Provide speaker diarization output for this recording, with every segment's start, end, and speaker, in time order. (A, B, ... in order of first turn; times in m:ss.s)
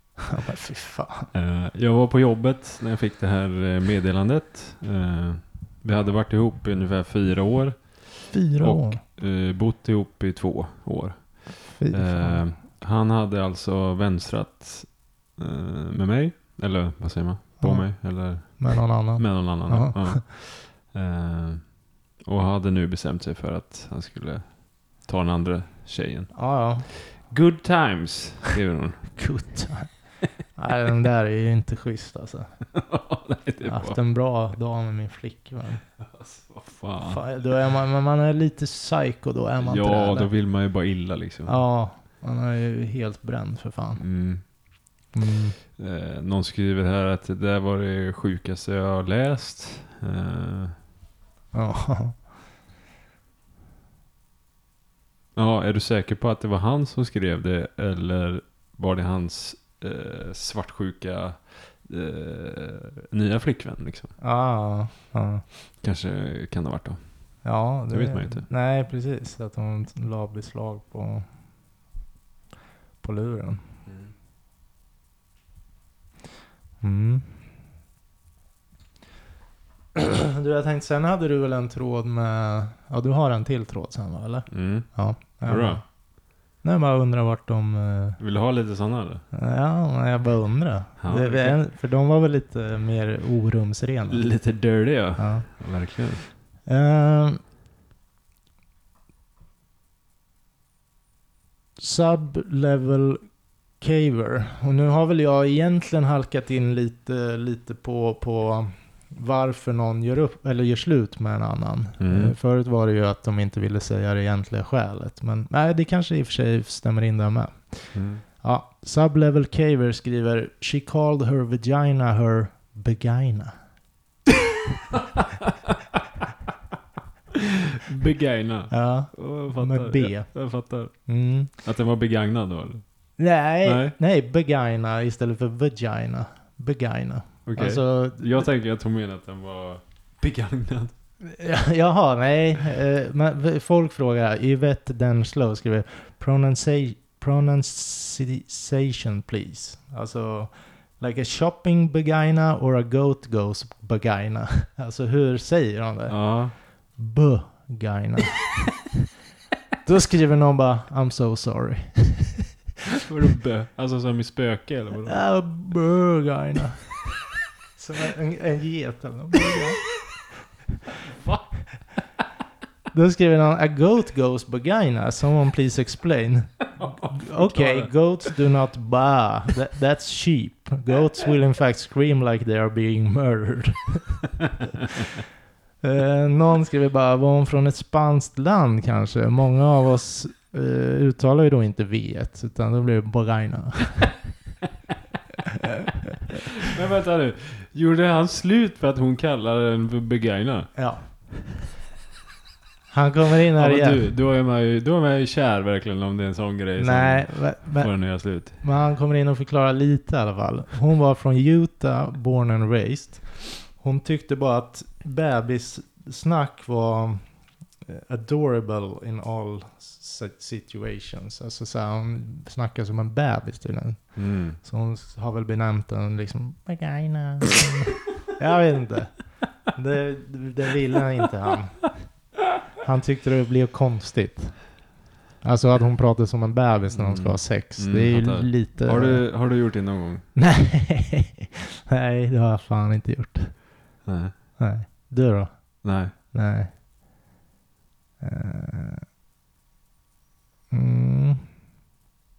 0:00.2-0:01.3 A
0:01.3-0:29.2 B
0:08.3-0:09.0 A
0:11.7-0:12.4 A
0:17.6-0:20.2 A
0:26.3-0:26.9 A
0:29.2-0:32.6 A
0:32.7-0:34.0 B
0:33.6-0:35.8 A
0:36.0-0:37.3 B
0:37.0-0:40.3 A
0:39.6-0:41.6 B
0:41.5-0:44.0 A
0:44.0-0:44.4 B
0:45.1-0:45.6 A
0:45.8-0:50.8 B
0:51.5-0:52.2 A
0:55.4-1:04.1 B
1:04.2-1:05.4 A
1:05.8-1:07.0 B
1:07.4-1:11.3 A
1:07.9-1:08.5 B
1:13.0-1:13.6 A
1:16.8-1:17.3 A
1:20.0-1:25.8 A
1:24.5-1:24.9 B
1:25.4-1:25.8 B
1:26.6-1:28.2 A
1:28.2-1:29.2 B
1:29.3-1:34.3 A
1:31.0-1:31.6 B
1:34.1-1:36.3 B
1:35.2-1:35.5 A
1:36.7-1:37.4 A
1:41.8-1:43.2 A
1:43.8-2:03.6 A
1:52.0-1:52.4 B
1:57.9-1:58.2 B
2:04.9-2:06.0 B
2:07.3-2:12.8 B
2:08.7-2:10.4 A
2:11.1-2:11.5 A
2:13.2-2:18.5 A
2:13.6-2:14.0 B
2:17.5-2:20.9 B
2:21.2-2:38.8 A
2:36.1-2:36.6 B
2:39.8-2:42.4 A
2:43.0-2:45.2 B
2:45.1-2:47.1 A
2:47.8-2:49.9 A
2:51.0-2:51.6 B
2:52.9-3:04.3 A
2:56.8-2:57.9 B
3:05.8-3:14.2 A
3:16.6-3:20.8 B
3:20.8-3:21.0 A
3:22.9-3:24.1 A
3:23.6-3:28.6 B
3:26.8-3:37.2 A
3:37.8-3:52.0 A
3:44.2-3:44.6 B
3:52.8-3:54.7 A
3:55.4-3:59.2 A
3:56.9-4:00.3 B
4:00.4-4:03.6 A
4:04.0-4:04.3 B
4:04.6-4:06.7 A
4:05.8-4:06.1 B
4:08.2-4:09.0 A
4:10.7-4:11.5 A